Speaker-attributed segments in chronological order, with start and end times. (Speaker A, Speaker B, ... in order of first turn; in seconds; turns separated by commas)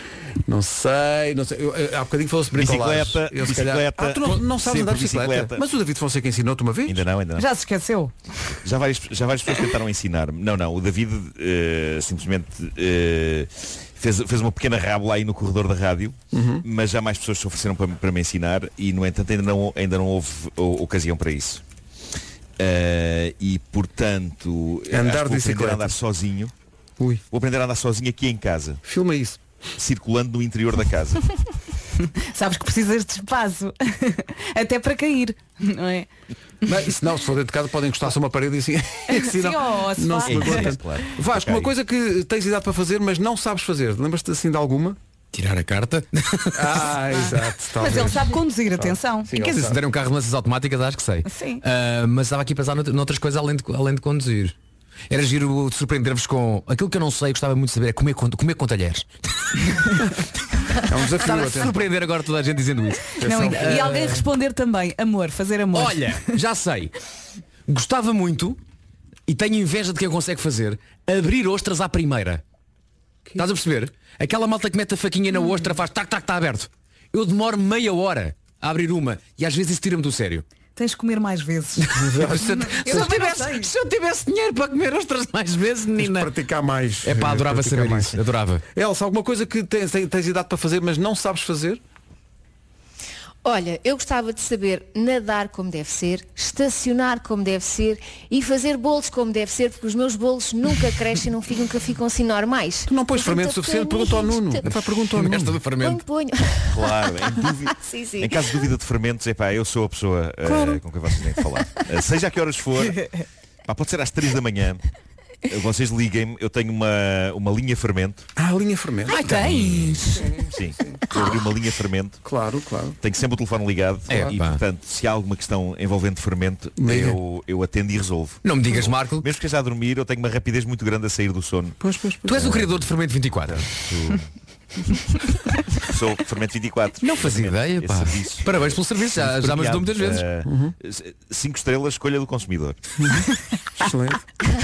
Speaker A: 0.5-7.1, Speaker B: 2.5-5.6, Speaker B: 6.9-7.5, Speaker C: 7.4-8.2, Speaker B: 8.6-21.6, Speaker A: 16.3-16.7, Speaker B: 22.6-26.5, Speaker A: 24.9-26.0, Speaker B: 27.3-28.8, Speaker A: 28.9-29.4, Speaker B: 29.8-31.3, Speaker C: 32.0-36.1, Speaker A: 36.7-45.0, Speaker C: 39.1-40.7, Speaker B: 40.3-41.7, Speaker D: 45.3-46.8, Speaker A: 46.5-49.8, Speaker C: 47.8-49.7, Speaker D: 49.5-54.5, Speaker C: 51.2-51.6, Speaker D: 55.1-60.1, Speaker A: 60.9-61.9, Speaker D: 61.2-64.1, Speaker A: 63.2-64.2, Speaker C: 63.2-66.3, Speaker D: 65.7-66.9, Speaker D: 67.7-68.6, Speaker D: 69.3-72.4, Speaker D: 73.4-80.5, Speaker C: 80.8-83.7, Speaker D: 81.8-86.3, Speaker A: 82.0-83.0, Speaker A: 86.0-88.2, Speaker D: 87.0-88.6, Speaker A: 88.7-91.8, Speaker E: 93.4-104.7, Speaker A: 102.9-105.6, Speaker D: 104.6-106.0, Speaker E: 105.8-108.7, Speaker B: 106.7-113.0, Speaker B: 113.7-114.8, Speaker B: 115.5-118.3, Speaker A: 118.4-119.2, Speaker D: 119.1-120.2, Speaker C: 119.2-120.2, Speaker A: 120.2-121.0, Speaker B: 120.5-122.2, Speaker A: 122.2-123.0, Speaker B: 123.0-131.8, Speaker D: 124.1-124.6, Speaker A: 126.8-127.2, Speaker D: 128.4-129.2, Speaker A: 131.8-132.7, Speaker D: 132.3-133.7, Speaker B: 133.6-134.2, Speaker B: 135.9-142.8, Speaker D: 137.0-140.3, Speaker A: 140.5-140.7, Speaker A: 143.8-144.3